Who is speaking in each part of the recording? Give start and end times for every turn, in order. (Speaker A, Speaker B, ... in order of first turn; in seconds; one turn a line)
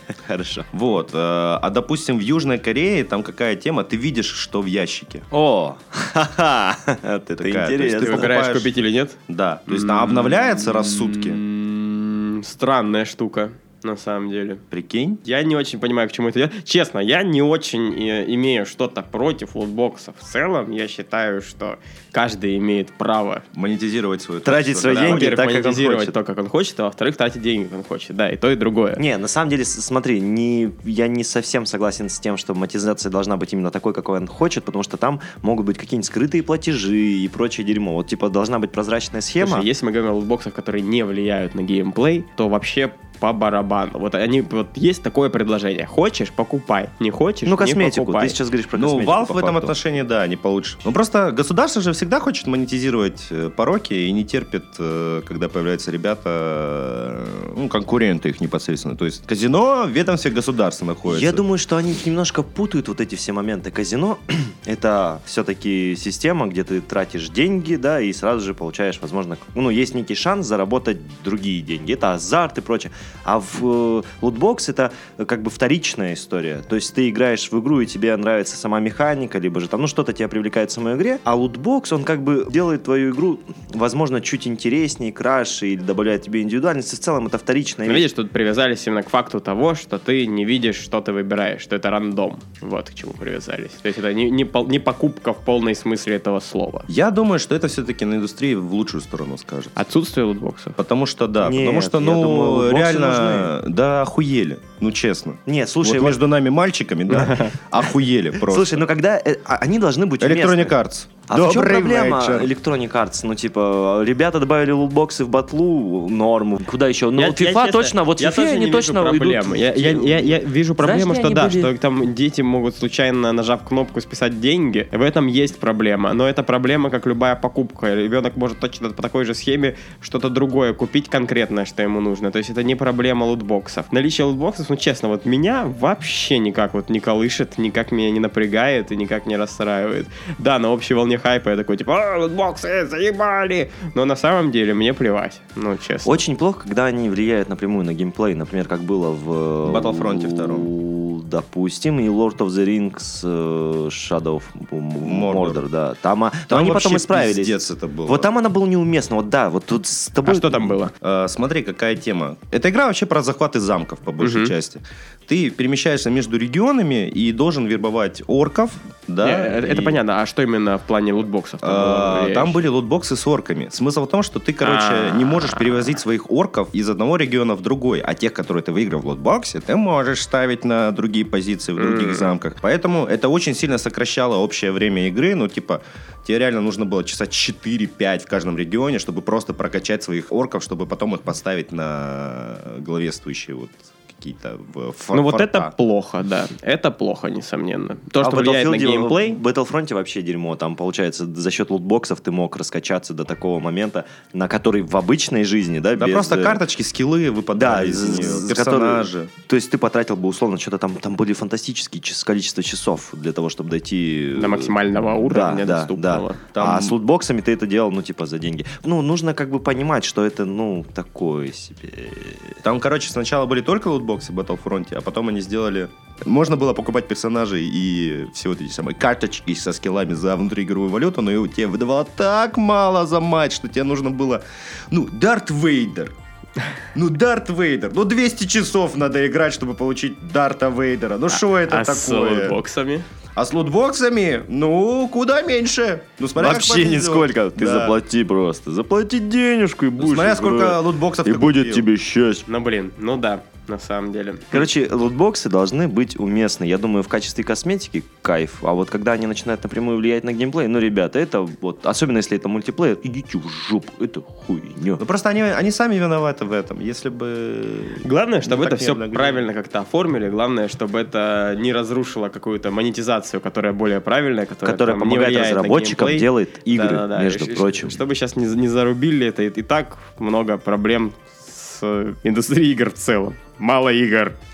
Speaker A: 0.2-0.7
Speaker B: 0.7-5.2
Speaker A: 5.3-8.3
Speaker B: 7.4-8.8
Speaker C: 8.0-14.6
Speaker B: 9.3-11.4
Speaker B: 14.7-15.2
Speaker C: 15.2-23.4
Speaker B: 23.5-25.3
Speaker A: 24.4-26.1
Speaker C: 24.9-29.0
Speaker A: 29.0-39.7
Speaker C: 39.4-48.4
Speaker A: 47.5-49.7
Speaker B: 48.8-61.4
Speaker A: 61.0-88.0
Speaker C: 87.8-96.9
Speaker B: 96.9-99.8
Speaker C: 99.8-100.8
Speaker B: 100.8-108.8
Speaker A: 101.4-103.5
Speaker A: 105.5-106.2
Speaker C: 107.1-107.5
Speaker A: 108.4-110.7
Speaker B: 110.2-112.5
Speaker A: 111.3-121.7
Speaker C: 117.2-146.2
Speaker A: 146.0-160.8
Speaker B: 149.6-150.7
Speaker B: 155.0-155.6
Speaker B: 156.5-158.3
Speaker C: 160.2-160.9
Speaker B: 161.0-170.0
Speaker C: 164.2-164.5
Speaker C: 169.2-172.6
Speaker B: 171.6-195.7
Speaker C: 174.6-175.6
Speaker C: 181.8-182.3
Speaker C: 195.1-199.4
Speaker A: 198.2-206.6
Speaker B: 205.9-209.3
Speaker A: 207.6-222.6
Speaker C: 214.3-216.4
Speaker B: 216.5-216.9
Speaker B: 222.6-236.1
Speaker B: 236.9-242.6
Speaker C: 241.3-243.0
Speaker B: 243.3-248.0
Speaker A: 246.3-252.4
Speaker B: 250.0-251.9
Speaker C: 252.5-254.7
Speaker A: 254.5-265.0
Speaker B: 265.0-269.4
Speaker C: 268.0-284.4
Speaker A: 274.6-278.0